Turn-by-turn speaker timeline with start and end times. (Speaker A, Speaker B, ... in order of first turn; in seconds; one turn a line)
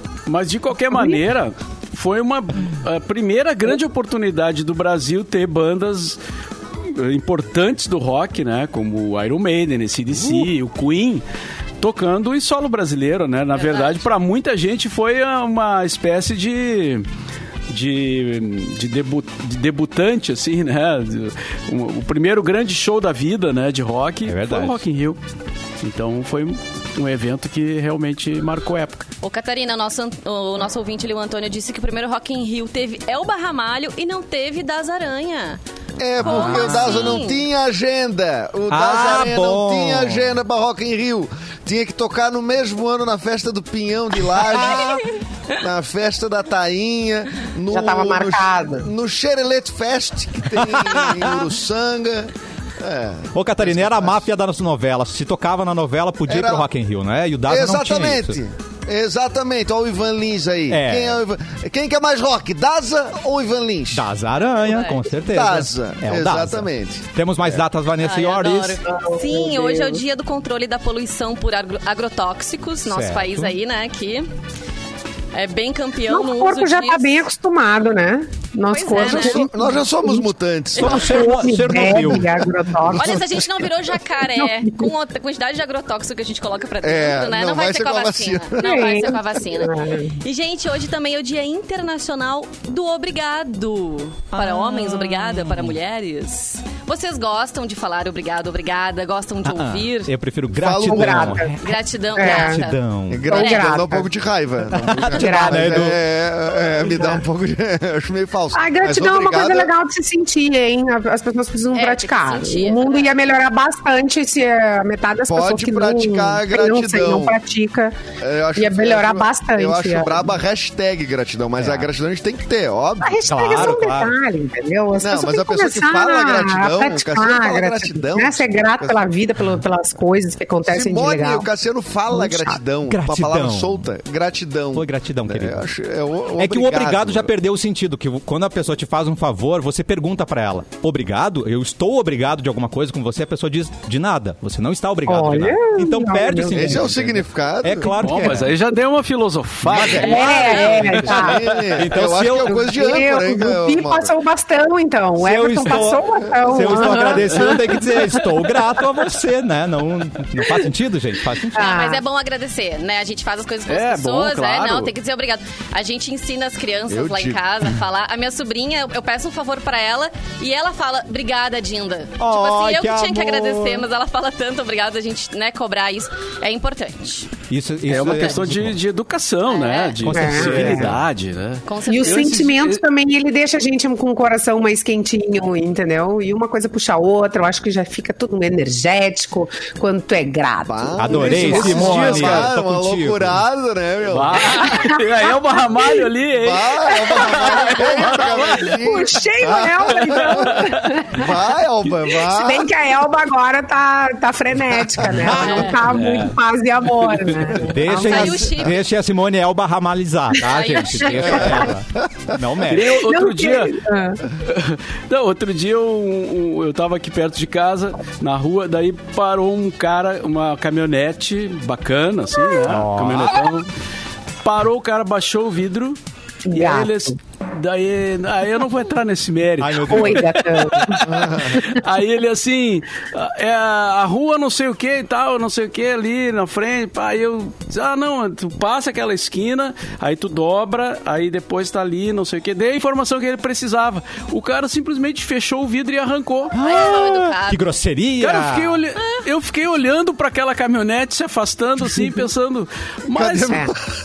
Speaker A: 0.3-6.2
Speaker B: 0.9-1.2
Speaker A: 6.8-11.2
Speaker A: 11.8-17.1
Speaker C: 13.5-14.0
Speaker A: 17.7-25.2
Speaker D: 24.2-24.8
Speaker A: 25.8-29.1
Speaker C: 29.2-35.6
Speaker E: 36.0-45.0
Speaker C: 36.2-37.5
Speaker D: 36.2-36.9
Speaker D: 38.7-40.3
Speaker D: 44.4-45.0
Speaker E: 45.5-54.3
Speaker B: 47.7-48.9
Speaker D: 50.7-51.4
Speaker D: 53.3-58.4
Speaker E: 56.3-56.7
Speaker E: 57.5-64.1
Speaker D: 60.7-61.2
Speaker D: 63.9-68.8
Speaker C: 64.6-65.0
Speaker E: 65.3-67.6
Speaker C: 68.0-74.2
Speaker B: 68.9-70.0
Speaker D: 72.8-73.5
Speaker C: 75.3-77.2
Speaker B: 76.1-83.5
Speaker C: 78.7-79.4
Speaker E: 79.0-81.3
Speaker D: 80.8-82.4
Speaker E: 82.8-83.5
Speaker C: 82.9-100.1
Speaker B: 84.2-84.9
Speaker E: 86.8-89.1
Speaker B: 88.6-90.1
Speaker D: 94.3-95.8
Speaker D: 99.5-103.3
Speaker E: 100.5-101.5
Speaker B: 100.8-101.5
Speaker C: 101.6-102.8
Speaker B: 102.2-102.6
Speaker E: 103.1-109.7
Speaker B: 103.2-104.1
Speaker C: 103.3-103.7
Speaker D: 104.7-106.0
Speaker B: 105.1-105.9
Speaker B: 106.8-107.2
Speaker B: 108.5-118.0
Speaker C: 111.7-113.2
Speaker E: 115.3-117.4
Speaker E: 118.2-123.8
Speaker B: 118.6-120.3
Speaker D: 121.6-121.9
Speaker B: 123.0-131.5
Speaker D: 123.3-124.1
Speaker E: 124.9-129.0
Speaker E: 130.7-137.3
Speaker B: 132.1-132.6
Speaker D: 132.9-133.8
Speaker D: 134.7-135.6
Speaker D: 136.4-148.5
Speaker B: 145.1-146.9
Speaker E: 146.5-147.9
Speaker A: 148.0-150.5
Speaker D: 149.7-152.7
Speaker B: 149.8-158.2
Speaker C: 150.0-150.8
Speaker E: 150.5-154.1
Speaker D: 155.2-161.7
Speaker B: 161.5-162.0
Speaker C: 161.5-177.3
Speaker A: 163.7-164.9
Speaker E: 166.9-167.4
Speaker D: 172.2-173.8
Speaker D: 177.5-178.7
Speaker A: 177.9-182.8
Speaker C: 179.5-180.0
Speaker D: 180.0-181.0
Speaker B: 180.1-180.9
Speaker C: 181.7-182.4
Speaker B: 181.9-192.5
Speaker E: 190.6-194.8
Speaker D: 191.0-193.4
Speaker A: 191.8-192.4
Speaker A: 194.1-198.8
Speaker B: 194.6-196.0
Speaker E: 196.4-202.7
Speaker B: 197.0-201.3
Speaker A: 200.0-201.1
Speaker B: 202.2-208.6
Speaker E: 204.8-205.2
Speaker D: 205.1-205.9
Speaker C: 205.3-205.8
Speaker A: 205.8-206.4
Speaker A: 207.0-207.7
Speaker D: 207.7-212.9
Speaker C: 208.0-208.8
Speaker C: 210.4-211.4
Speaker B: 211.2-211.6
Speaker E: 211.2-212.4
Speaker A: 212.7-213.8
Speaker B: 212.9-214.2
Speaker A: 214.3-223.7
Speaker D: 222.7-223.5
Speaker A: 224.4-226.0
Speaker B: 226.4-227.2
Speaker A: 226.5-246.6
Speaker D: 229.6-230.4
Speaker B: 229.8-231.8
Speaker E: 231.0-231.6
Speaker C: 246.5-247.7
Speaker D: 246.5-248.8
Speaker A: 248.2-253.7
Speaker E: 253.1-253.8